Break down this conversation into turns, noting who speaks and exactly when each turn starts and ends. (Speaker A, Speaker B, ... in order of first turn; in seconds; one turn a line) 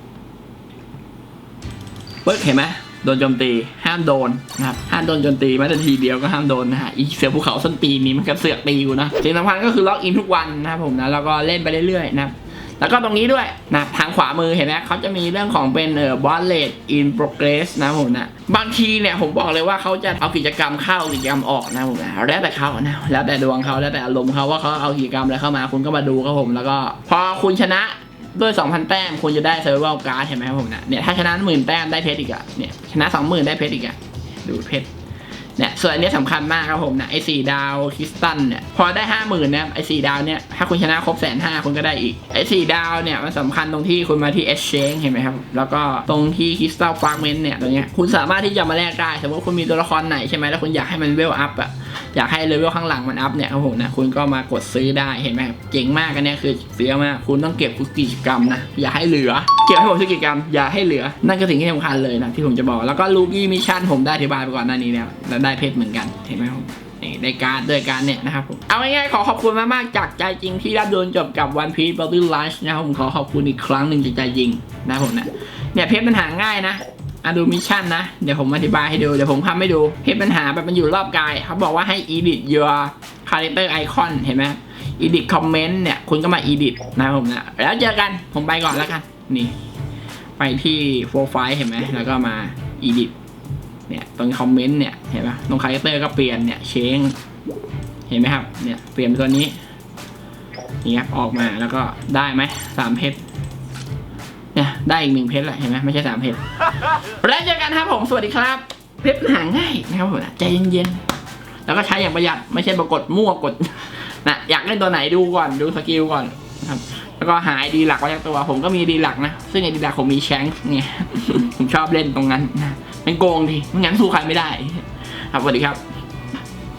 Speaker A: 2.2-34.9
Speaker A: 35.6-89.5
Speaker A: 90.4-93.1
Speaker A: 93.9-97.2
Speaker A: 98.1-99.6
Speaker A: 100.8-103.2
Speaker A: 104.5-111.0
Speaker A: 111.7-125.8